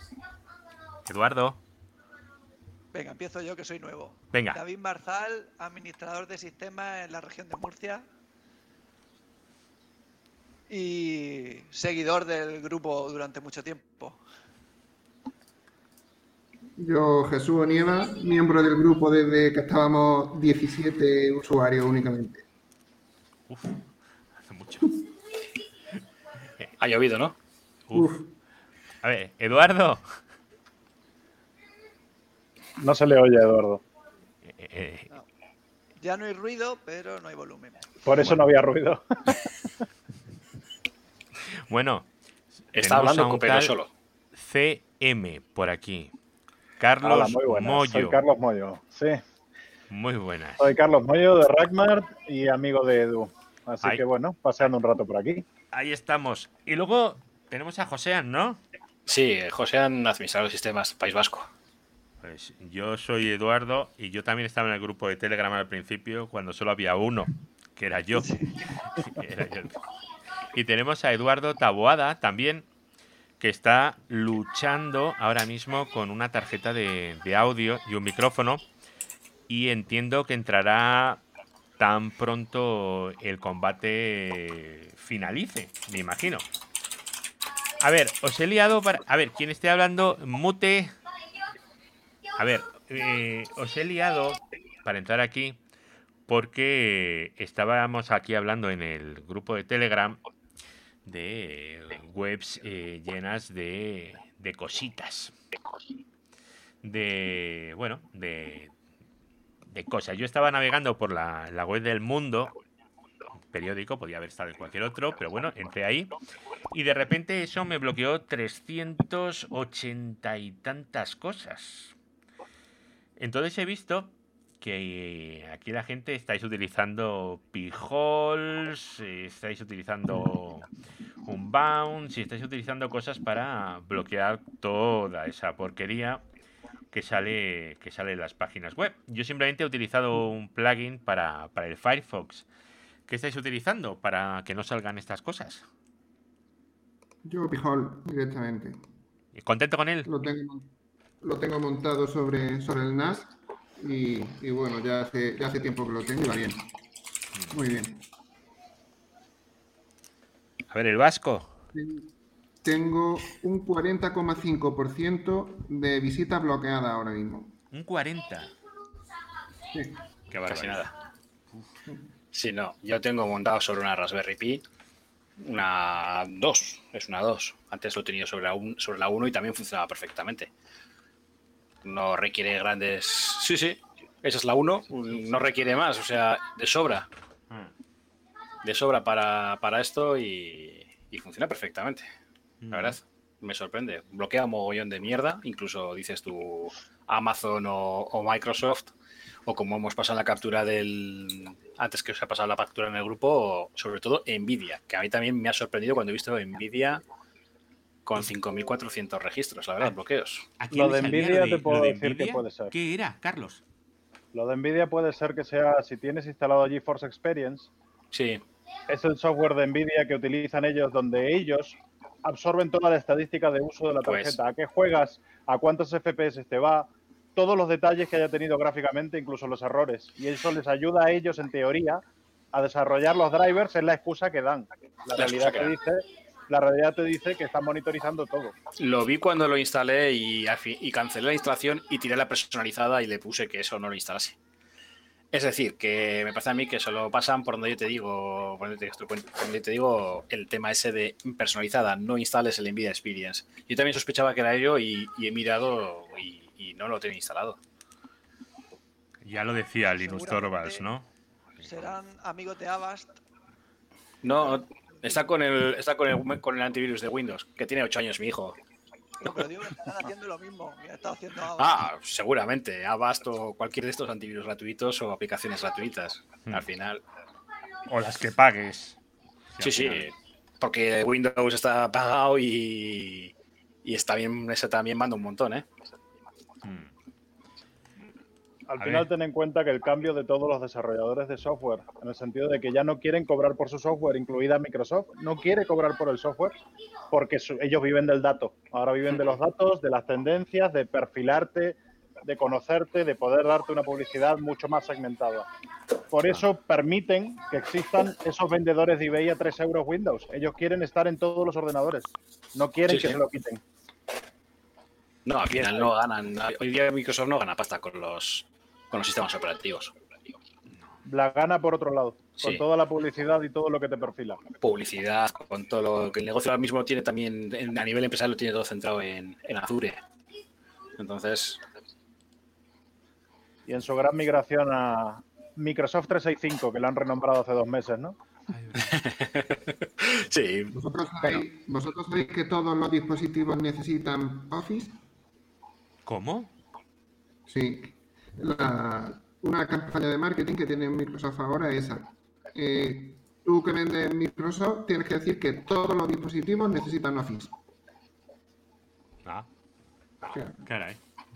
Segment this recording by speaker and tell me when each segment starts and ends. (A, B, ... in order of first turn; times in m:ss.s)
0:01.1-0:01.6 A
0:02.9-0:08.1 B
0:04.3-0:04.6 A
0:10.7-0:14.2 B
0:16.8-0:22.4 C
0:23.5-0:23.9 A
0:24.4-0:25.0 A
0:26.8-0:27.4 D
0:27.9-0:28.1 A
0:27.9-0:28.3 C
0:29.0-0:30.2 A
0:32.8-0:33.8 E
0:34.4-0:35.1 A
0:36.0-0:37.9 B
0:38.0-0:39.0 E
0:41.7-0:42.1 A
0:42.7-0:43.8 A
0:42.7-0:43.9 D
0:44.3-0:46.1 A
0:46.8-0:48.2 A
0:47.0-0:49.2 E
0:49.9-0:50.7 A
0:50.6-0:55.5 E
0:55.7-0:58.6 A
0:59.1-1:01.5 D
1:02.2-1:09.8 A
1:08.2-1:08.5 B
1:10.5-1:12.7 A
1:13.4-1:18.6 A
1:19.5-1:21.2 A
1:21.8-1:26.5 A
1:27.8-1:30.9 A
1:32.4-1:35.6 A
1:36.3-1:40.2 A
1:41.1-1:45.3 A
1:46.8-1:48.7 A
1:49.7-1:52.5 A
1:53.5-1:56.2 A
1:56.7-2:01.9 A
2:03.2-2:10.7 A
2:11.3-2:16.2 A
2:16.9-2:22.5 A
2:23.1-2:25.6 A
2:27.2-2:28.8 C
2:29.4-2:30.1 A
2:30.0-2:30.7 C
2:31.2-2:36.7 C
2:37.5-2:38.0 C
2:40.7-2:41.5 A
2:41.7-2:42.1 C
2:42.6-2:47.6 C
2:47.7-2:48.5 A
2:49.7-2:50.0 C
2:50.3-2:50.9 A
2:50.5-2:50.9 D
2:52.3-2:54.6 D
2:55.4-3:00.5 D
3:01.8-3:07.1 D
3:08.6-3:12.1 D
3:12.6-3:13.0 A
3:12.7-3:18.9 D
3:19.5-3:27.0 D
3:28.1-3:30.5 D
3:30.6-3:33.6 A
3:30.7-3:32.7 E
3:34.3-3:37.7 E
3:38.1-3:38.4 D
3:38.9-3:58.6 E
3:44.0-3:44.4 D
3:55.2-3:55.7 D
3:58.8-4:04.4 D
4:05.3-4:17.6 D
4:19.2-4:21.1 A
4:20.0-4:20.9 B
4:21.6-4:21.9 A
4:21.6-4:23.2 B
4:24.2-4:28.6 D
4:24.4-4:25.2 B
4:29.2-4:31.9 B
4:31.5-4:37.0 D
4:37.9-4:39.0 A
4:39.5-4:40.1 A
4:39.6-4:43.3 D
4:43.8-4:45.7 D
4:46.6-4:46.9 A
4:48.7-4:56.6 E
4:48.8-4:49.1 A
4:57.1-5:05.5 E
5:06.1-5:13.6 E
5:12.9-5:13.2 D
5:15.3-5:20.4 D
5:15.5-5:15.9 E
5:21.0-5:24.4 E
5:24.6-5:30.0 D
5:31.0-5:31.6 D
5:33.7-5:38.2 E
5:38.5-5:39.0 A
5:38.8-5:40.8 D
5:40.7-5:45.0 C
5:46.1-5:46.5 A
5:47.5-5:57.6 C
6:00.2-6:00.6 C
6:00.6-6:01.0 A